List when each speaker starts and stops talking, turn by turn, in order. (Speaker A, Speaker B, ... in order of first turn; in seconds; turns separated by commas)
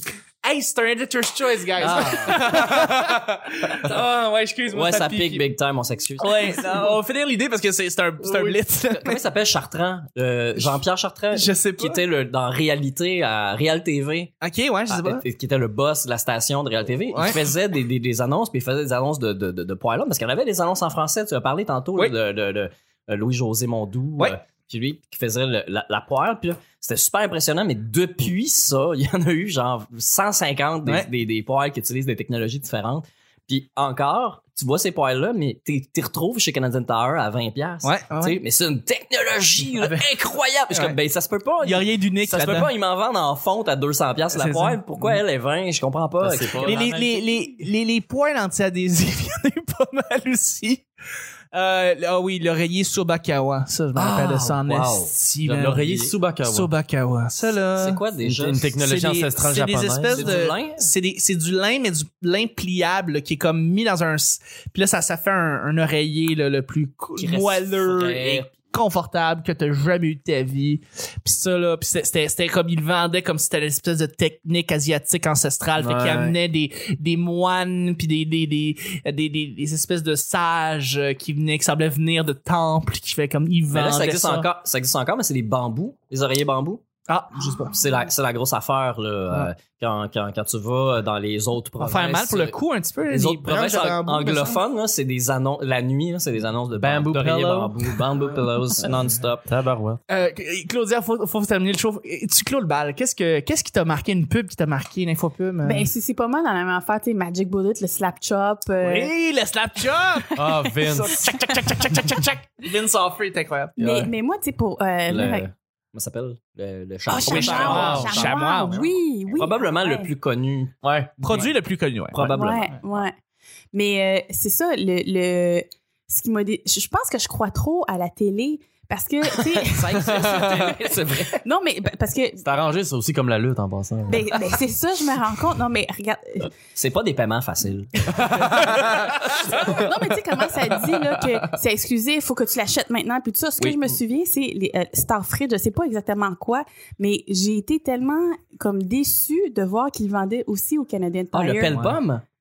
Speaker A: 0.4-5.5, Speaker B: 1.8-2.7, Speaker C: 1.8-2.9, Speaker B: 4.7-6.6, Speaker A: 6.2-9.2, Speaker B: 8.9-14.3, Speaker A: 11.3-12.0, Speaker A: 14.4-15.2, Speaker B: 14.9-46.8, Speaker A: 17.1-17.4, Speaker A: 37.8-38.4, Speaker A: 40.7-41.0, Speaker A: 41.6-42.7, Speaker A: 44.3-45.2, Speaker C: 46.2-47.1, Speaker A: 46.6-50.9, Speaker A: 51.5-58.0, Speaker B: 54.0-56.1, Speaker C: 55.5-56.7, Speaker B: 57.8-58.7, Speaker C: 58.2-60.4, Speaker A: 58.8-84.5, Speaker B: 60.1-60.9, Speaker B: 67.2-68.5, Speaker C: 75.8-76.4, Speaker B: 83.7-86.8, Speaker A: 87.1-87.8, Speaker B: 87.6-92.6, Speaker A: 91.8-94.6, Speaker B: 93.1-99.5, Speaker C: 96.8-97.9, Speaker C: 99.5-100.0, Speaker A: 100.1-105.9, Speaker D: 105.6-109.1, Speaker A: 108.8-113.8, Speaker D: 110.2-110.7, Speaker C: 110.3-111.3, Speaker D: 111.5-112.1, Speaker C: 113.8-114.1, Speaker D: 113.8-115.5, Speaker B: 115.1-121.5, Speaker A: 117.1-118.8, Speaker D: 117.1-120.1, Speaker C: 117.5-118.3, Speaker C: 120.8-121.5, Speaker A: 121.2-122.3, Speaker B: 122.1-123.0, Speaker D: 122.3-123.1, Speaker D: 123.7-130.2, Speaker B: 129.3-131.4, Speaker C: 129.9-130.8, Speaker D: 131.4-132.4, Speaker C: 132.4-134.3, Speaker D: 134.1-136.5, Speaker B: 136.7-138.8, Speaker C: 138.1-139.9, Speaker D: 139.5-151.8, Speaker B: 143.6-144.0, Speaker B: 151.3-152.2, Speaker A: 151.6-152.0